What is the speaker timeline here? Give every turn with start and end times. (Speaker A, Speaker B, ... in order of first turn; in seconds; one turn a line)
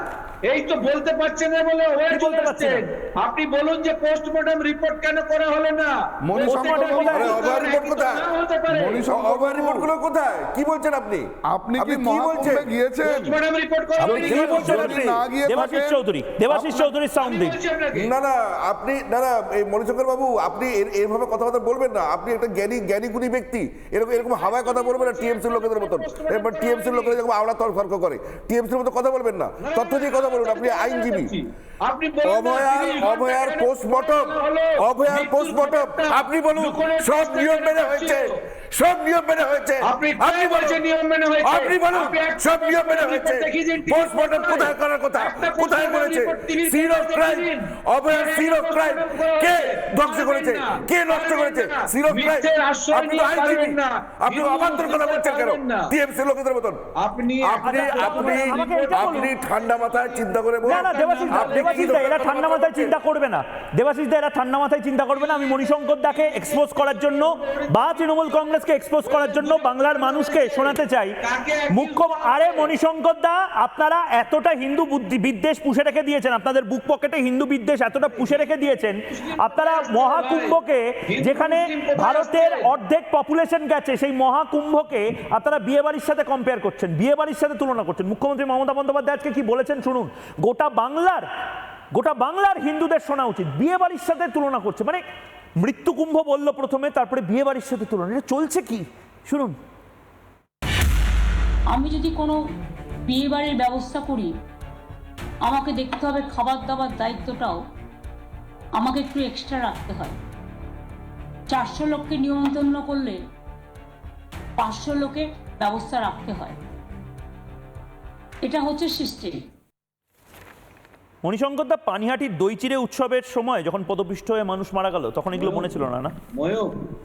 Speaker A: 0.5-9.1
Speaker B: 2.1-2.8
Speaker C: 6.3-7.0
Speaker B: 6.4-7.6
Speaker D: 7.1-8.3
Speaker C: 8.7-9.9
Speaker D: 9.1-12.7
Speaker C: 11.5-13.4
Speaker A: 13.0-15.0
Speaker C: 14.0-16.9
Speaker B: 14.2-17.6
Speaker A: 17.1-18.1
Speaker D: 17.9-31.3
Speaker A: 24.2-27.2
Speaker A: 29.6-38.4
Speaker D: 32.2-40.8
Speaker A: 39.8-56.0
Speaker D: 41.4-56.9
Speaker A: 57.0-61.9
Speaker D: 57.4-63.0
Speaker B: 57.6-59.3
Speaker B: 60.6-71.2
Speaker A: 65.1-72.8
Speaker B: 71.7-91.3
Speaker A: 78.1-78.5
Speaker A: 79.1-80.6
Speaker A: 81.1-82.7
Speaker B: 91.9-95.0
Speaker B: 95.6-99.5
Speaker E: 101.7-102.4
Speaker E: 103.1-104.3
Speaker E: 105.4-107.6
Speaker E: 108.8-110.2
Speaker E: 111.5-113.2
Speaker E: 114.6-116.6
Speaker E: 118.4-119.4
Speaker B: 121.2-126.1
Speaker A: 125.3-125.7
Speaker A: 126.3-126.7